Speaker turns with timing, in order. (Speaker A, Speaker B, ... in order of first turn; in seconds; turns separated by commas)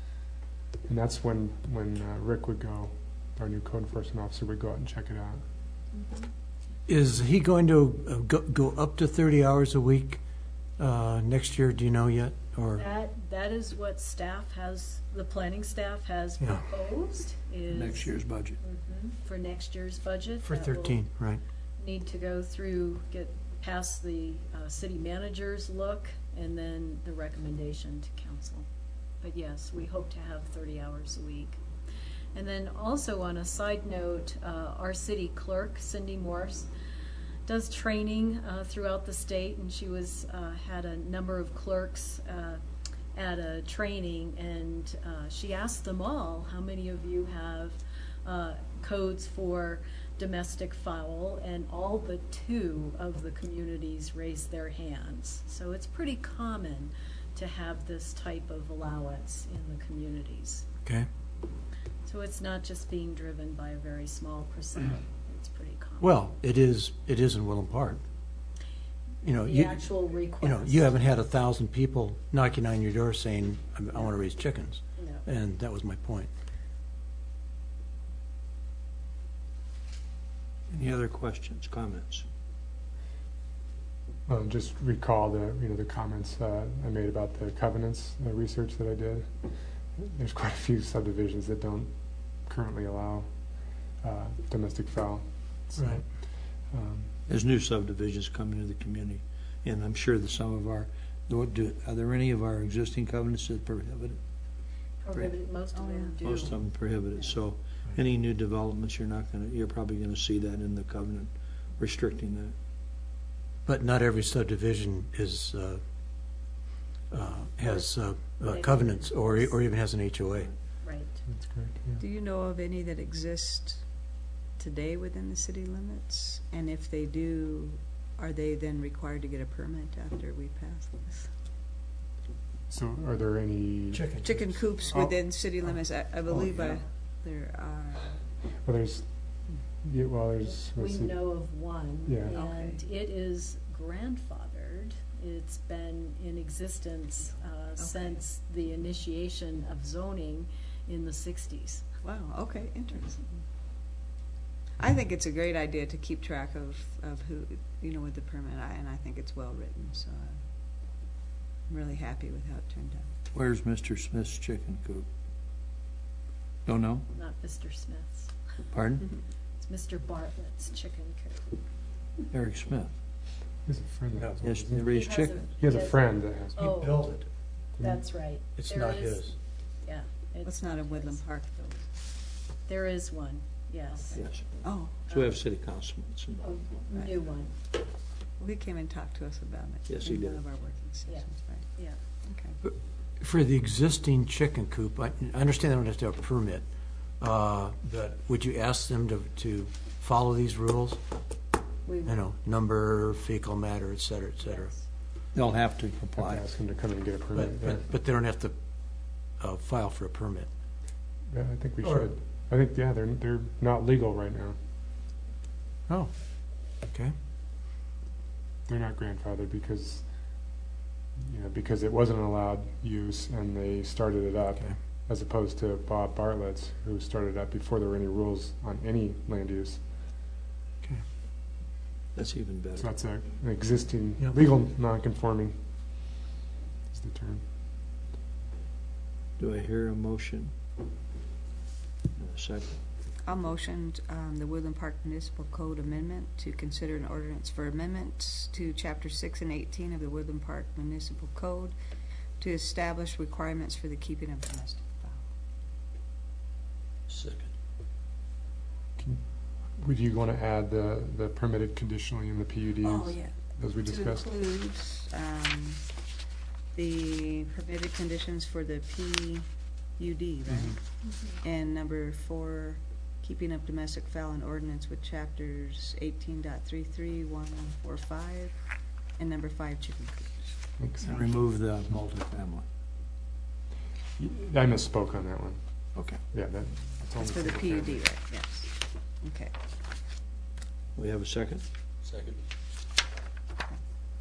Speaker A: 0.9-5.4, Speaker B: 6.9-10.2, Speaker B: 10.8-12.9, Speaker C: 12.8-21.0, Speaker B: 16.4-16.7, Speaker D: 17.7-18.6, Speaker B: 20.4-21.4, Speaker C: 21.8-28.7, Speaker C: 29.2-31.6, Speaker C: 32.3-36.7, Speaker C: 37.5-42.6, Speaker C: 43.1-60.6, Speaker C: 62.0-66.1, Speaker B: 66.0-68.0, Speaker B: 69.2-76.3, Speaker C: 69.4-71.0, Speaker C: 75.0-75.2, Speaker D: 80.7-82.2, Speaker A: 84.3-91.9, Speaker A: 92.4-93.3, Speaker A: 94.0-96.0, Speaker B: 95.8-96.0, Speaker A: 96.7-97.1, Speaker D: 97.3-104.2, Speaker C: 105.0-106.6, Speaker D: 105.1-105.4, Speaker E: 105.7-106.5, Speaker D: 106.2-112.5, Speaker B: 113.7-115.8, Speaker B: 117.1-120.5, Speaker C: 118.5-119.5, Speaker C: 120.8-121.2, Speaker A: 121.2-122.0, Speaker E: 122.0-123.8, Speaker E: 124.6-131.3, Speaker A: 132.7-134.1, Speaker B: 133.9-135.1, Speaker E: 134.2-138.2, Speaker A: 138.6-139.1, Speaker A: 139.8-141.3, Speaker C: 140.7-151.8, Speaker A: 142.1-142.3, Speaker E: 142.3-142.8, Speaker E: 147.8-148.2, Speaker E: 152.0-153.4, Speaker E: 154.8-160.3, Speaker E: 161.7-163.1, Speaker D: 163.3-165.1, Speaker D: 166.7-167.1, Speaker C: 167.1-168.3, Speaker D: 168.7-169.1, Speaker C: 169.6-171.5, Speaker D: 172.3-172.9, Speaker A: 173.6-176.8, Speaker B: 174.1-174.4, Speaker D: 174.4-175.6, Speaker C: 174.9-177.1, Speaker B: 176.5-177.2, Speaker A: 177.8-178.0, Speaker C: 177.8-179.3, Speaker B: 178.6-179.3, Speaker C: 179.8-181.8, Speaker E: 180.4-181.5, Speaker C: 182.7-185.2, Speaker E: 184.0-185.0, Speaker D: 184.1-186.5, Speaker C: 186.4-187.6, Speaker E: 186.9-187.2, Speaker E: 188.4-191.7, Speaker D: 189.9-190.4, Speaker C: 191.1-192.0, Speaker E: 192.3-192.6, Speaker B: 192.7-196.6, Speaker B: 197.2-201.0, Speaker C: 201.8-202.2, Speaker B: 202.1-204.7, Speaker C: 204.4-204.8, Speaker D: 205.3-206.4, Speaker A: 206.2-207.8, Speaker B: 207.3-208.5, Speaker B: 209.4-210.5, Speaker A: 211.3-214.6, Speaker B: 211.8-212.1, Speaker B: 216.8-217.1, Speaker A: 218.7-220.0, Speaker A: 221.2-229.8, Speaker D: 232.1-232.9, Speaker A: 232.8-235.6, Speaker A: 236.9-237.4, Speaker D: 239.4-240.5, Speaker D: 242.2-242.8, Speaker E: 243.2-251.7, Speaker E: 252.4-255.2, Speaker D: 257.1-257.5, Speaker A: 259.8-264.3, Speaker E: 262.8-265.8, Speaker E: 266.7-270.8, Speaker C: 271.0-271.4, Speaker E: 271.4-278.6, Speaker E: 279.2-280.4, Speaker A: 280.8-281.3, Speaker D: 281.0-282.6, Speaker A: 284.2-285.6, Speaker D: 285.9-286.2, Speaker A: 286.2-288.0, Speaker E: 287.2-289.5, Speaker D: 290.9-292.3